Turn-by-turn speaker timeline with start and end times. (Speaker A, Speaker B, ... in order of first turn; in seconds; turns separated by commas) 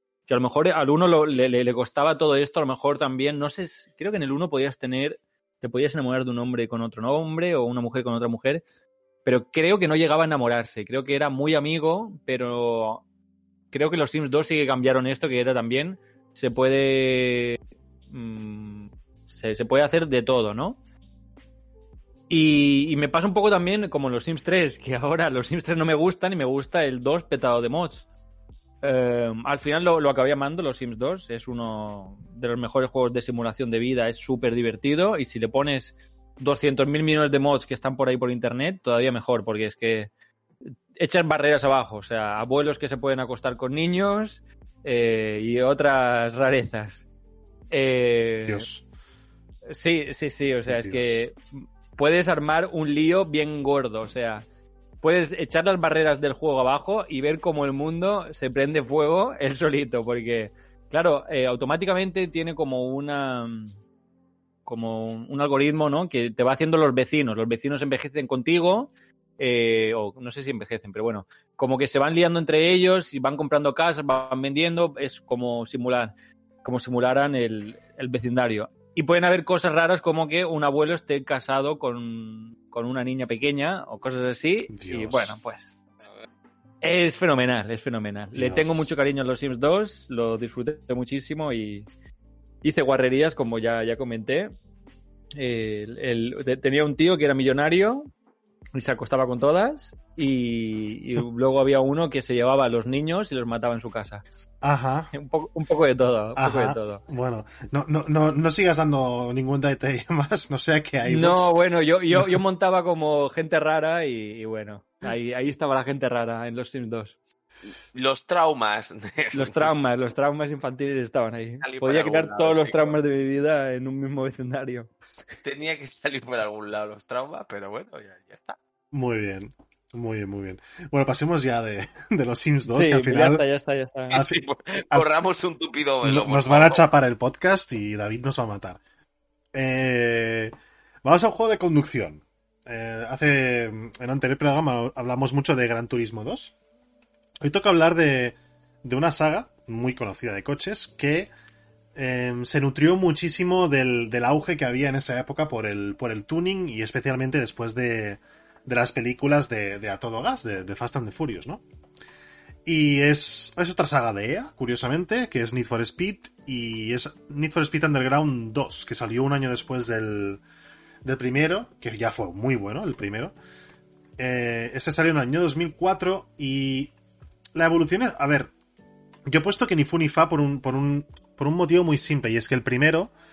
Speaker A: 0.3-8.6, Speaker A: 9.2-13.0, Speaker A: 13.7-17.6, Speaker A: 18.1-20.8, Speaker A: 22.3-28.1, Speaker A: 28.8-40.1, Speaker A: 40.7-47.0, Speaker A: 47.7-48.7, Speaker B: 48.5-48.8, Speaker A: 49.7-54.5, Speaker B: 50.7-51.2, Speaker A: 55.0-63.7, Speaker A: 64.7-76.1, Speaker A: 76.6-86.0, Speaker B: 84.7-85.3, Speaker A: 86.8-91.8, Speaker B: 88.3-88.9, Speaker A: 92.6-94.5, Speaker A: 95.4-98.1, Speaker A: 98.7-104.2, Speaker B: 104.6-105.1, Speaker A: 105.1-107.0, Speaker B: 106.4-111.5, Speaker A: 111.0-117.2, Speaker B: 112.1-112.4, Speaker C: 117.9-119.7, Speaker A: 119.3-124.9, Speaker C: 121.6-123.0, Speaker C: 125.4-128.6, Speaker B: 128.9-133.4, Speaker A: 132.7-134.2, Speaker C: 134.1-136.8, Speaker B: 134.1-135.1, Speaker B: 136.0-138.8, Speaker B: 139.5-140.5, Speaker B: 141.0-146.5, Speaker B: 147.4-151.3, Speaker B: 151.9-161.6, Speaker B: 162.7-170.4, Speaker B: 171.0-173.3, Speaker B: 174.2-176.9, Speaker B: 177.6-178.5, Speaker B: 179.3-183.1